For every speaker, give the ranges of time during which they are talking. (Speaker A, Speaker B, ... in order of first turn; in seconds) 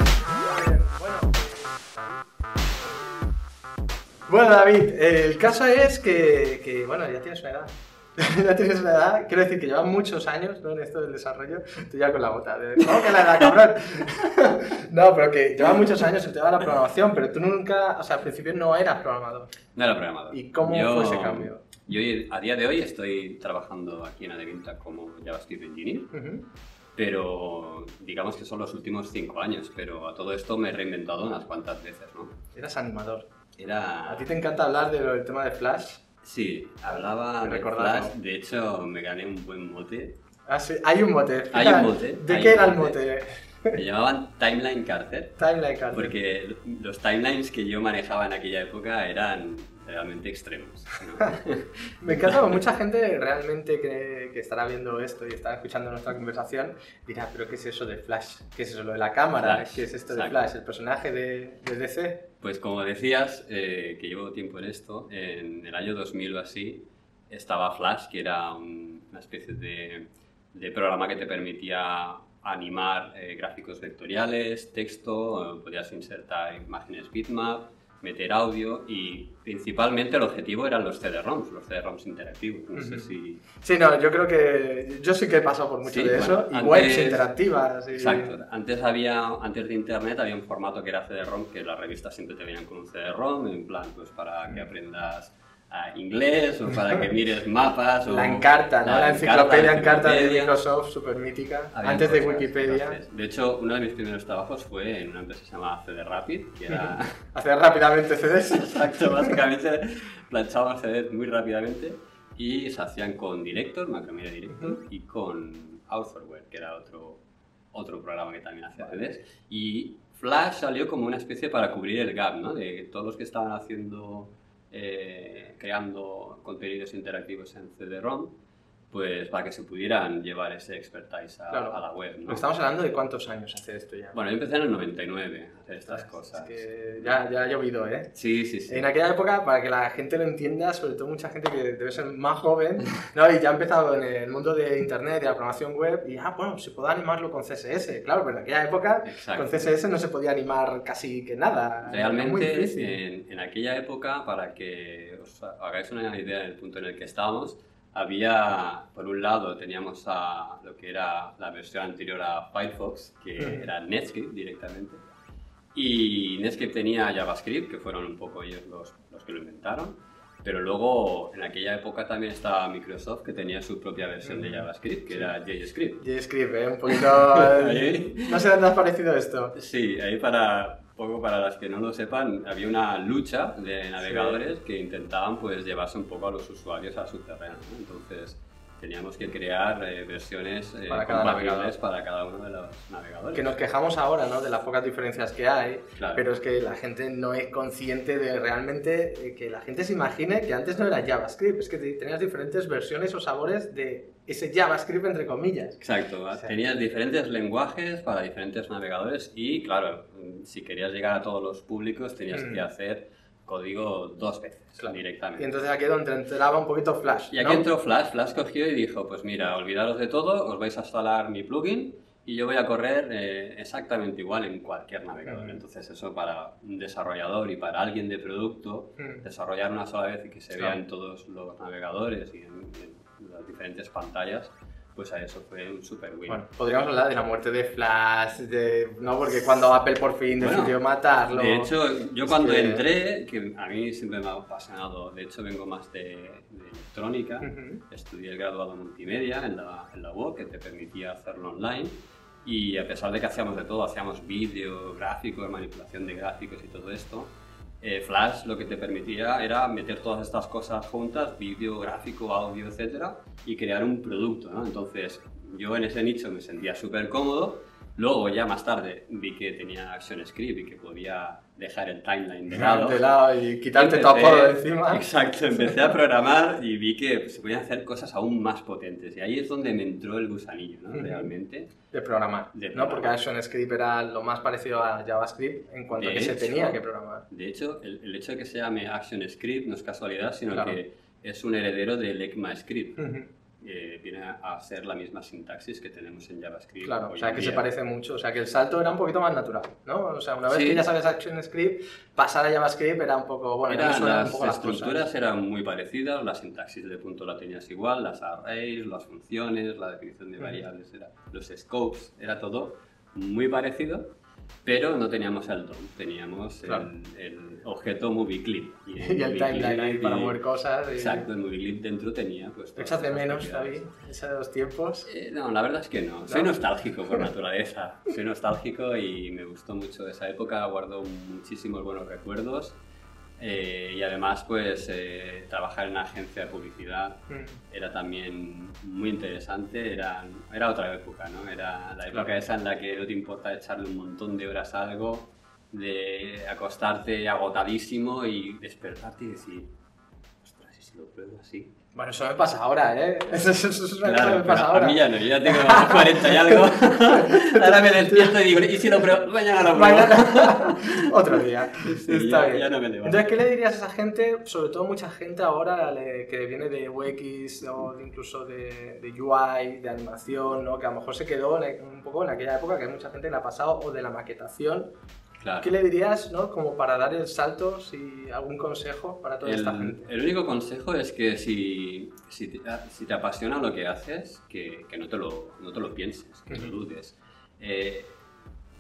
Speaker A: 0.3-2.2, 4.3-19.5, 20.3-21.6, 26.1-26.4, 32.5-33.3, 34.1-36.0, 36.9-38.1, 40.5-43.8, 45.4-46.2, 52.0-62.2, 82.8-88.4, 98.1-103.0, 106.7-109.3, 131.5-134.2, 135.9-138.1, 138.7-153.0, 163.4-163.7, 174.2-175.3, 176.0-179.5, 184.0-184.4, 190.9-191.7, 193.3-205.8, 212.3-212.6, 214.8-217.7, 225.3-225.6, 236.3-241.7, 242.3-242.8, 247.4-247.8, 272.5-275.0, 280.9-281.3, 281.9-287.3, 290.5-290.8, 293.0-293.3, 296.8-305.1, 319.0-321.3, 322.8-325.1, 326.3-326.6, 337.3-337.6, 342.1-342.4, 351.9-358.3, 359.7-374.9, 375.6-380.0, 386.5-386.8
Speaker B: 19.8-26.1, 27.0-32.4, 33.6-34.3, 36.2-40.2, 41.5-43.0, 43.7-45.4, 45.9-52.4, 59.4-60.4, 62.4-83.4, 85.8-87.3, 87.9-100.5, 101.7-107.2, 108.5-117.2, 117.7-128.3, 128.9-132.4, 134.1-136.6, 138.1-138.9, 149.1-149.6, 151.9-165.0, 165.8-176.0, 176.9-178.5, 179.6-193.6, 196.0-196.3, 205.8-215.5, 217.3-236.4, 240.4-240.8, 241.3-273.1, 273.7-281.7, 282.5-283.1, 285.9-293.1, 293.6-297.6, 300.5-300.8, 303.7-314.1, 314.6-320.4, 320.9-323.8, 325.1-332.8, 333.4-349.7, 350.4-351.7, 354.0-363.4, 375.4-375.7, 379.4-388.2